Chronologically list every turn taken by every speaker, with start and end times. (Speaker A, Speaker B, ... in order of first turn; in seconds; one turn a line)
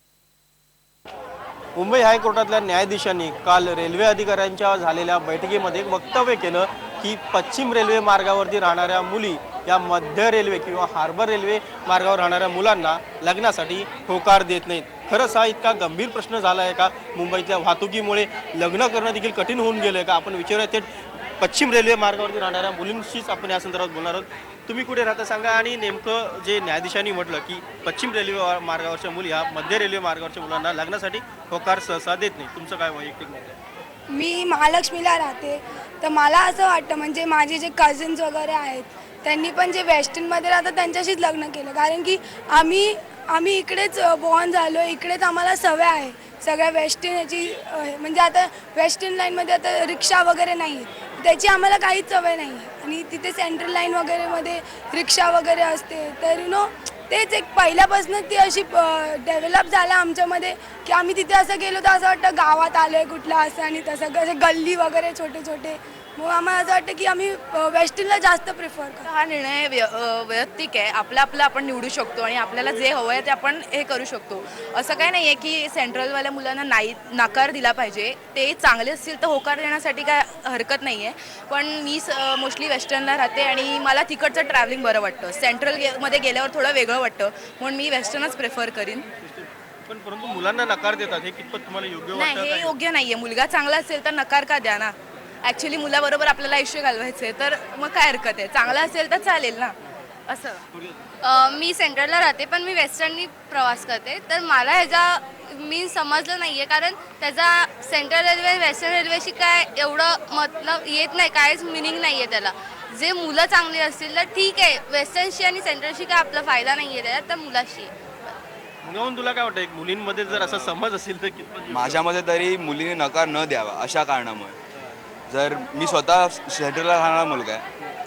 Speaker A: 1.8-20.9
Speaker A: 21.4-33.5
Speaker B: 34.1-69.1
Speaker C: 69.0-89.1
Speaker A: 89.2-92.7
Speaker C: 92.2-99.7
Speaker C: 100.3-100.6
Speaker D: 101.2-117.9
Speaker A: 118.8-122.0
Speaker E: 121.7-124.6
Speaker E: 125.3-127.6